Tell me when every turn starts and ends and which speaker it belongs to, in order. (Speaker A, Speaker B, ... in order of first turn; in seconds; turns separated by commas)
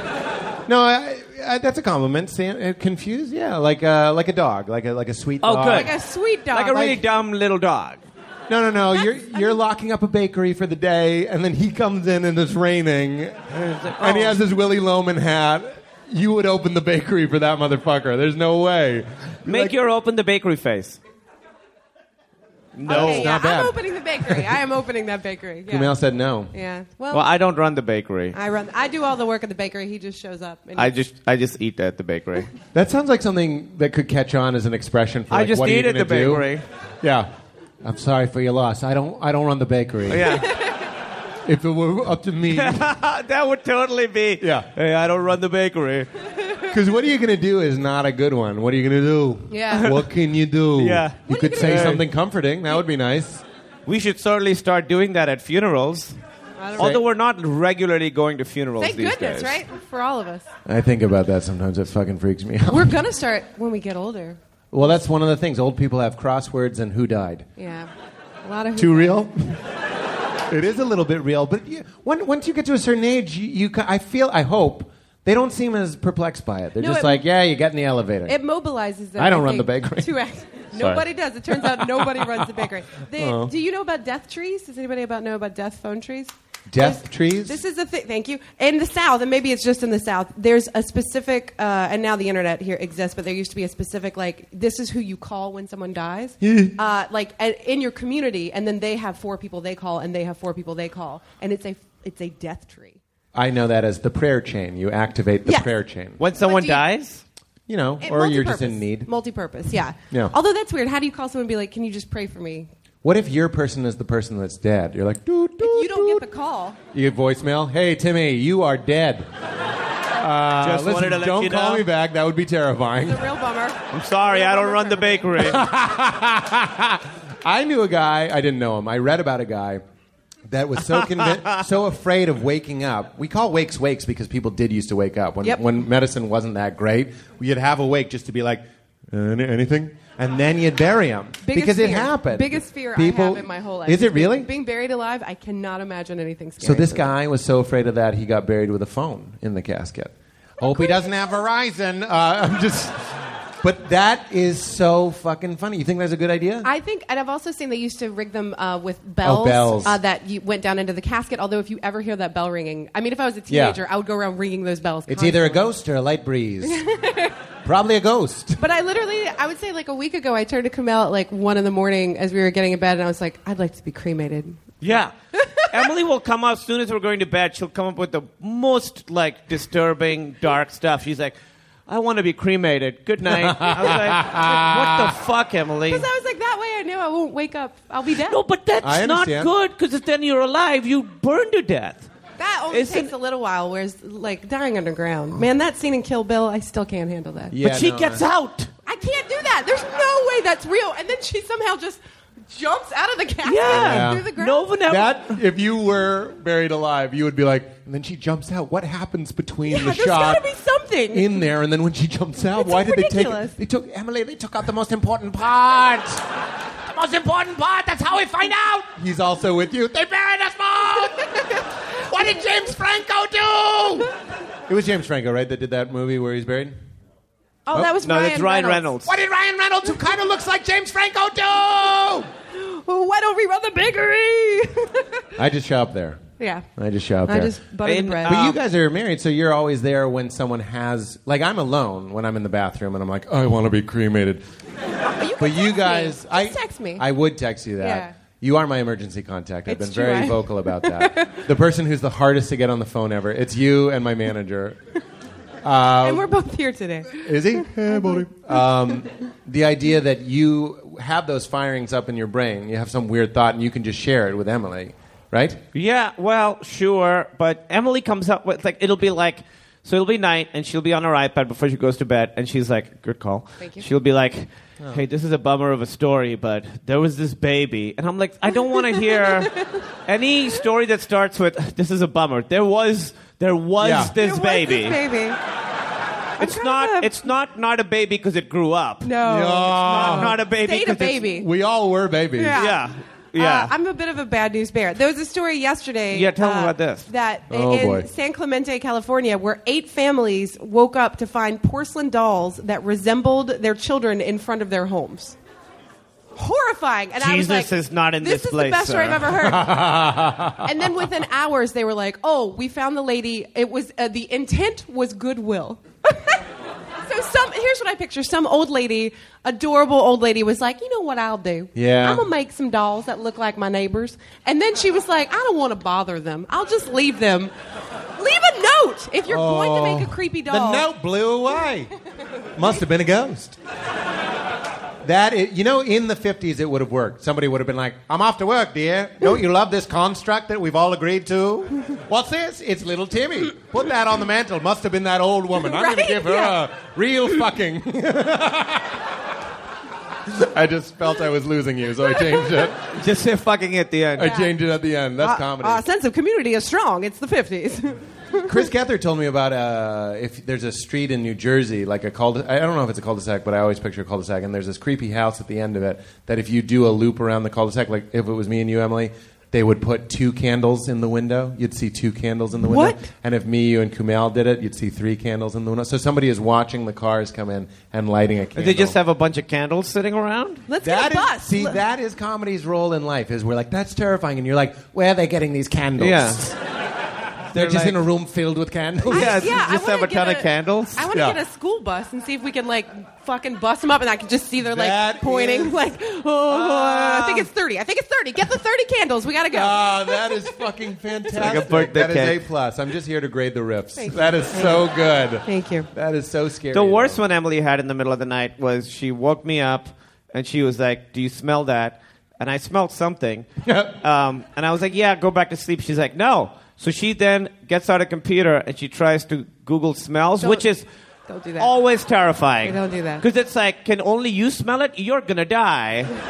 Speaker A: 0.7-5.9, Speaker B: 5.4-5.9, Speaker C: 5.7-7.0, Speaker B: 6.5-8.0, Speaker A: 8.5-19.7, Speaker C: 9.0-9.5, Speaker B: 13.5-14.4, Speaker B: 19.4-21.0, Speaker B: 22.7-23.3, Speaker A: 22.9-24.4, Speaker C: 22.9-26.0, Speaker A: 25.7-26.5, Speaker C: 26.5-27.2, Speaker B: 27.1-28.4, Speaker C: 28.3-30.9, Speaker B: 30.8-32.5, Speaker A: 32.7-36.5, Speaker B: 35.3-36.6, Speaker A: 37.0-37.3, Speaker A: 37.8-40.5, Speaker B: 40.1-40.5, Speaker C: 40.4-40.8, Speaker A: 41.4-42.8, Speaker B: 42.5-46.1, Speaker A: 44.4-44.7, Speaker A: 46.7-53.4, Speaker C: 49.5-49.9, Speaker B: 49.8-50.0, Speaker B: 50.8-52.0, Speaker C: 51.3-51.9, Speaker B: 53.9-56.1, Speaker C: 56.6-57.0, Speaker B: 56.8-59.6, Speaker C: 58.8-60.5, Speaker A: 60.6-62.9, Speaker C: 62.7-64.4, Speaker A: 64.7-67.5, Speaker C: 67.6-67.9, Speaker C: 68.4-69.2, Speaker A: 68.8-69.6, Speaker A: 70.5-78.4, Speaker C: 76.8-77.2, Speaker C: 78.2-103.0, Speaker A: 79.2-80.1, Speaker A: 80.7-82.3, Speaker A: 83.1-83.5, Speaker A: 86.7-87.6, Speaker A: 96.4-96.8, Speaker A: 103.3-106.2, Speaker B: 106.2-107.2, Speaker C: 106.4-106.8, Speaker A: 107.7-109.1, Speaker C: 108.0-112.7, Speaker A: 113.0-116.2, Speaker C: 115.6-116.8, Speaker A: 116.9-119.3, Speaker A: 120.2-123.2, Speaker B: 120.6-121.8, Speaker C: 123.0-125.5, Speaker B: 123.9-125.6, Speaker A: 125.4-129.8, Speaker A: 130.5-144.5, Speaker C: 141.4-147.1, Speaker A: 146.6-156.7, Speaker C: 150.6-151.3, Speaker C: 156.6-165.7, Speaker A: 159.2-160.0, Speaker A: 163.5-163.8, Speaker A: 165.1-166.8, Speaker C: 166.6-167.3, Speaker A: 167.6-168.6, Speaker C: 168.6-174.6, Speaker B: 174.8-175.1, Speaker C: 175.4-175.7, Speaker B: 175.7-181.3, Speaker B: 181.9-186.1, Speaker A: 183.2-185.1, Speaker C: 185.9-188.4, Speaker B: 188.3-192.1, Speaker A: 188.8-189.5, Speaker C: 192.4-197.5, Speaker B: 192.7-193.1, Speaker A: 197.5-198.2, Speaker B: 197.6-198.7, Speaker C: 198.8-204.7, Speaker B: 203.4-205.3, Speaker A: 203.7-204.3, Speaker A: 204.8-210.4, Speaker C: 209.7-211.4, Speaker A: 211.1-216.2, Speaker C: 212.5-213.6, Speaker A: 216.8-224.1, Speaker A: 224.7-226.8, Speaker C: 227.7-228.9, Speaker B: 228.0-229.1, Speaker A: 229.0-232.3, Speaker C: 232.5-235.2, Speaker A: 235.3-236.2, Speaker C: 236.4-236.7, Speaker A: 236.8-237.6, Speaker C: 237.3-238.5, Speaker B: 237.8-238.6, Speaker A: 238.2-244.4, Speaker C: 245.2-247.0, Speaker A: 245.4-254.8, Speaker C: 247.8-248.1, Speaker C: 249.7-251.4, Speaker A: 255.6-256.3, Speaker C: 256.0-258.2, Speaker A: 257.1-265.6, Speaker B: 265.7-279.5, Speaker C: 273.6-273.9, Speaker C: 278.9-279.8, Speaker B: 280.1-285.0, Speaker A: 283.8-284.1, Speaker C: 284.1-285.4, Speaker C: 286.4-287.1, Speaker B: 286.4-289.1, Speaker C: 289.0-291.5, Speaker A: 289.2-290.4, Speaker B: 289.8-291.2, Speaker A: 291.3-292.6, Speaker C: 292.4-292.8, Speaker B: 292.6-293.7, Speaker C: 293.4-305.4, Speaker B: 296.1-297.1, Speaker A: 297.5-298.1, Speaker C: 306.4-310.0, Speaker B: 307.2-309.3, Speaker A: 309.4-310.7, Speaker C: 310.6-316.4, Speaker C: 317.1-327.5, Speaker A: 321.7-322.2, Speaker C: 328.2-330.9, Speaker A: 329.3-331.9, Speaker A: 332.5-333.6, Speaker A: 335.0-349.0, Speaker C: 345.6-346.6, Speaker A: 350.3-352.8, Speaker C: 352.4-352.6, Speaker B: 352.9-354.3, Speaker A: 354.1-355.8, Speaker C: 354.2-354.5, Speaker C: 355.2-358.6, Speaker A: 358.4-379.0, Speaker C: 372.6-373.1, Speaker B: 378.6-380.6, Speaker C: 380.7-381.8, Speaker A: 380.8-386.5, Speaker B: 386.0-386.6, Speaker B: 387.5-388.0, Speaker A: 387.5-389.5, Speaker B: 389.1-391.1, Speaker C: 389.1-400.6, Speaker A: 391.1-391.4, Speaker A: 394.6-395.8, Speaker B: 396.5-397.5, Speaker A: 399.5-407.2, Speaker B: 401.4-402.4, Speaker C: 403.9-404.9, Speaker C: 405.4-405.9, Speaker B: 406.7-420.8, Speaker A: 413.6-414.0, Speaker C: 420.4-420.6, Speaker C: 421.3-421.7, Speaker B: 421.6-426.1, Speaker C: 422.6-423.2